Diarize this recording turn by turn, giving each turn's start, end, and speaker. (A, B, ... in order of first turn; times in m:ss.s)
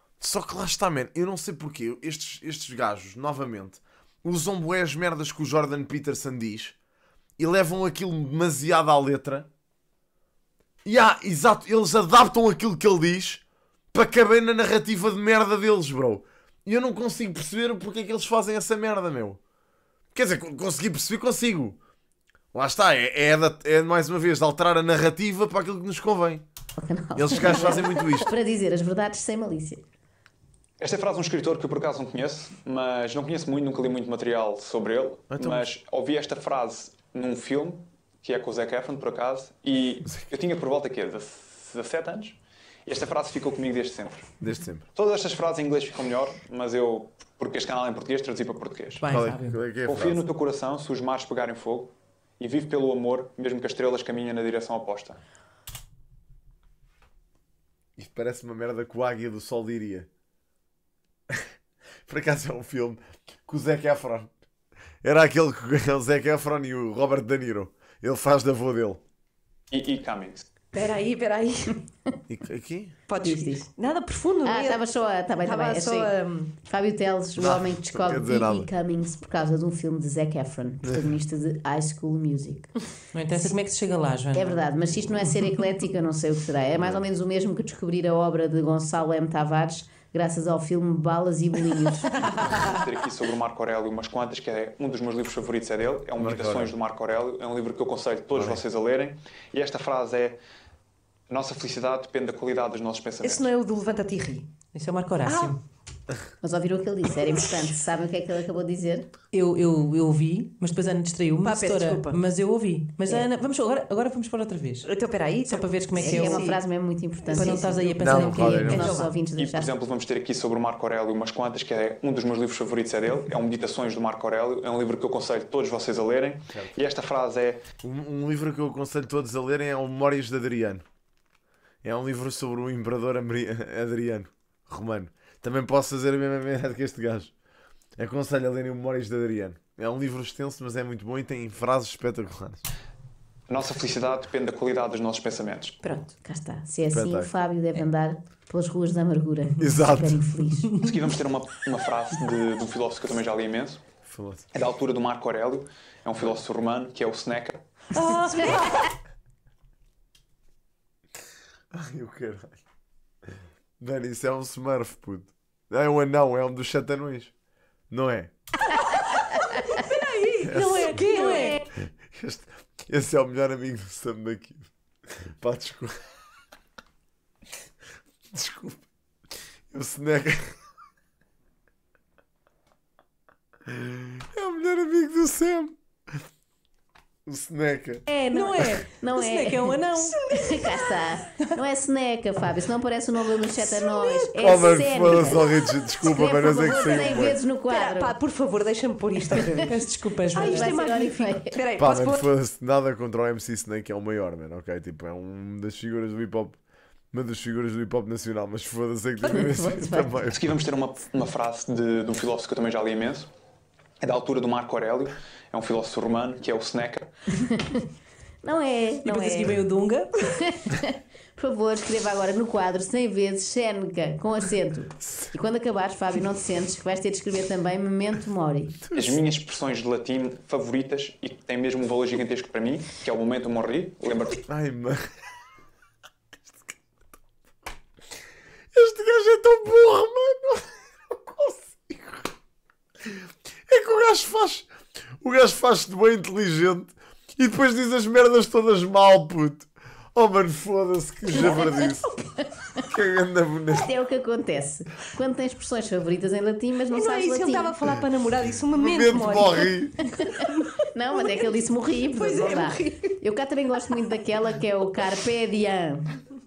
0:00.2-0:06.8 A
0:07.4-0:09.5 A
0:10.8-0:19.4 A
0:20.1-0:21.8 A
0:22.5-0:26.4 A
0:26.8-0:29.8 B
0:27.2-0:28.3 A
0:30.8-0:44.3 C
0:35.3-0:35.7 A
0:44.4-0:44.8 A
0:45.0-0:49.1 C
0:49.0-0:49.6 D
0:49.1-0:50.2 A
0:49.8-0:55.2 C
0:58.0-1:00.1 A
1:02.1-1:04.3 A
1:05.0-1:09.0 A
1:09.7-1:10.4 C
1:10.7-1:11.8 E
1:12.3-1:13.0 A
1:13.1-1:14.8 E
1:13.2-1:13.7 B
1:14.4-1:22.7 B
1:15.4-1:16.5 E
1:17.4-1:18.7 A
1:23.1-1:24.6 D
1:24.3-1:32.6 B
1:26.7-1:27.1 A
1:32.6-1:40.4 C
1:36.2-1:36.7 A
1:38.4-1:38.6 A
1:41.3-1:43.5 C
1:43.2-1:44.6 E
1:44.6-1:45.6 D
1:45.3-1:45.6 E
1:46.4-1:49.1 B
1:49.3-1:54.9 D
1:51.4-1:52.2 E
1:54.8-1:56.6 E
1:55.5-1:56.4 D
1:55.9-1:59.7 B
1:57.3-1:57.7 E
1:57.3-1:59.1 D
1:58.0-1:59.0 A
1:58.7-1:59.1 E
1:59.4-2:07.6 C
2:07.8-2:10.8 A
2:11.8-2:17.3 A
2:18.0-2:22.6 A
2:23.5-2:25.8 C
2:25.8-2:26.1 E
2:26.2-2:30.7 B
2:26.9-2:27.3 A
2:29.6-2:30.4 A
2:30.8-2:33.8 C
2:34.1-2:34.5 A
2:34.5-2:37.6 C
2:38.0-2:38.7 D
2:38.0-2:38.9 E
2:41.7-2:42.6 A
2:43.8-2:47.3 A
2:47.9-2:48.3 A
2:48.8-2:51.6 D
2:49.3-2:51.6 E
2:50.4-2:51.0 A
2:51.8-2:54.7 A
2:55.3-2:55.9 A
2:58.3-2:58.9 A
2:59.7-3:00.6 A
3:03.7-3:05.8 A
3:07.3-3:08.0 A
3:08.1-3:18.2 B
3:08.3-3:10.2 D
3:13.8-3:15.3 E
3:14.4-3:17.4 A
3:16.5-3:19.8 E
3:19.6-3:20.7 D
3:20.3-3:21.6 B
3:20.3-3:22.2 E
3:21.8-3:26.6 A
3:27.1-3:30.4 A
3:29.2-3:30.3 B
3:30.3-3:33.3 C
3:34.0-3:37.1 C
3:37.4-3:37.8 B
3:38.4-3:39.6 B
3:39.0-3:40.4 D
3:40.6-3:48.8 B
3:48.9-3:49.2 A
3:48.9-3:54.4 C
3:54.5-3:55.0 A
3:58.7-4:02.3 A
4:03.7-4:04.7 A
4:05.2-4:12.1 A
4:11.3-4:12.8 B
4:12.9-4:13.9 A
4:13.7-4:17.8 B
4:16.9-4:19.7 E
4:18.7-4:19.9 A
4:20.0-4:26.1 B
4:20.4-4:20.7 E
4:22.1-4:23.1 E